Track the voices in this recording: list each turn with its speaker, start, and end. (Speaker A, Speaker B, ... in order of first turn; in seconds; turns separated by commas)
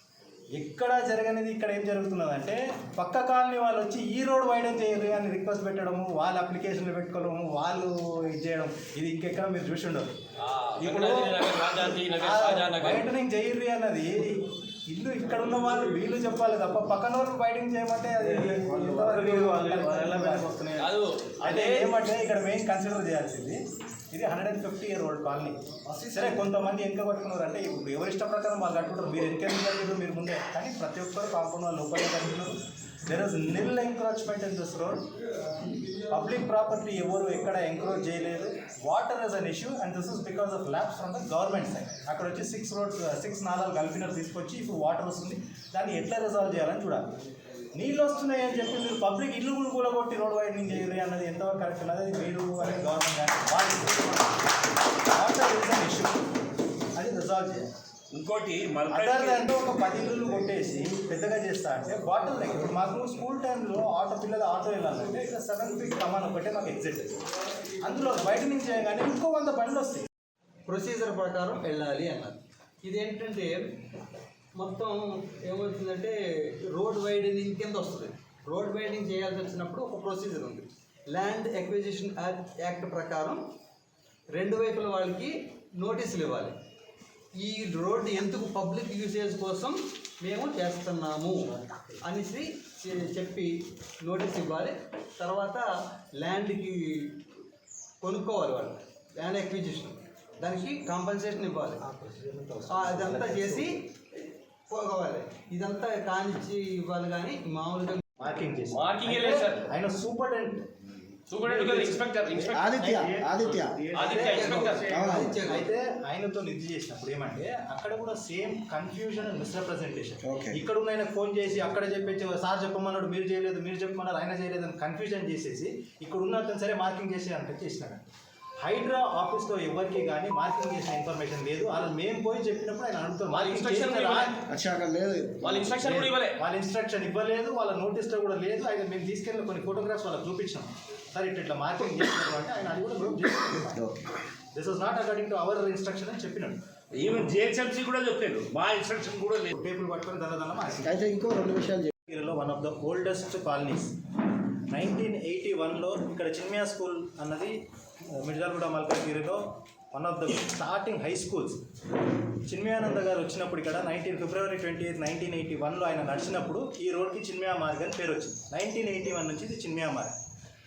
Speaker A: 0.5-10.1, Speaker B: 10.4-13.1, Speaker A: 10.8-11.4, Speaker A: 12.2-20.9, Speaker B: 19.1-21.9, Speaker A: 21.4-35.0, Speaker A: 36.0-47.1, Speaker A: 47.7-54.4, Speaker A: 55.1-56.2, Speaker A: 56.9-57.7, Speaker C: 58.1-59.5, Speaker A: 58.9-67.2, Speaker A: 67.8-70.1, Speaker D: 70.7-73.8, Speaker D: 74.6-76.2, Speaker D: 76.7-83.5, Speaker D: 84.3-86.6, Speaker D: 87.3-97.2, Speaker D: 98.0-101.9, Speaker A: 102.0-103.7, Speaker D: 102.7-103.9, Speaker D: 104.7-108.0, Speaker A: 108.2-110.7, Speaker B: 108.7-109.7, Speaker B: 111.3-112.8, Speaker A: 111.4-128.0, Speaker E: 112.5-113.8, Speaker B: 113.4-115.0, Speaker D: 114.0-115.7, Speaker A: 128.6-134.5, Speaker B: 133.3-134.4, Speaker E: 134.6-135.3, Speaker B: 135.4-136.4, Speaker A: 135.7-143.9, Speaker A: 144.5-146.6, Speaker C: 146.9-149.5, Speaker A: 149.5-151.2, Speaker E: 151.1-151.7, Speaker A: 152.1-154.0, Speaker A: 154.7-157.6, Speaker A: 158.1-161.6, Speaker A: 162.4-170.1